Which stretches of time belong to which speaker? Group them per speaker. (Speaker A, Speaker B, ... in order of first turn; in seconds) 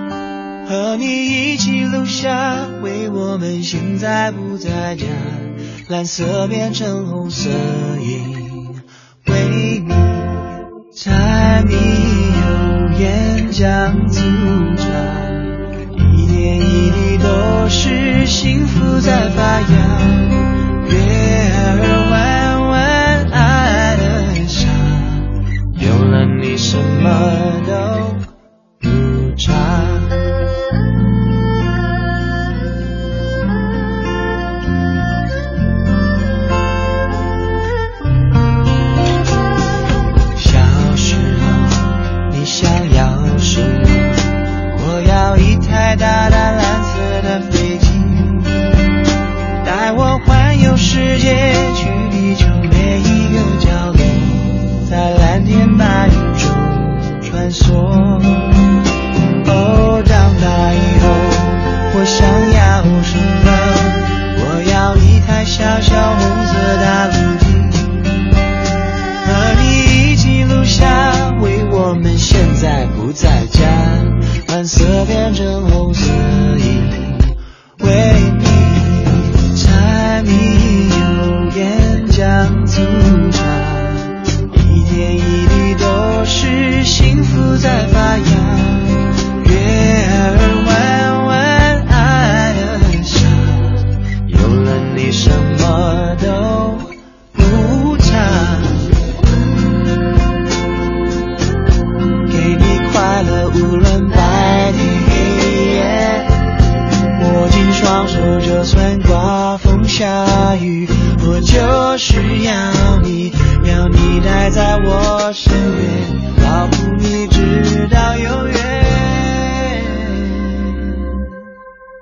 Speaker A: 0.7-28.2, 28.8-30.2, 40.4-48.7, 49.6-58.5, 59.4-68.1, 69.2-98.9, 102.3-106.3, 107.2-121.3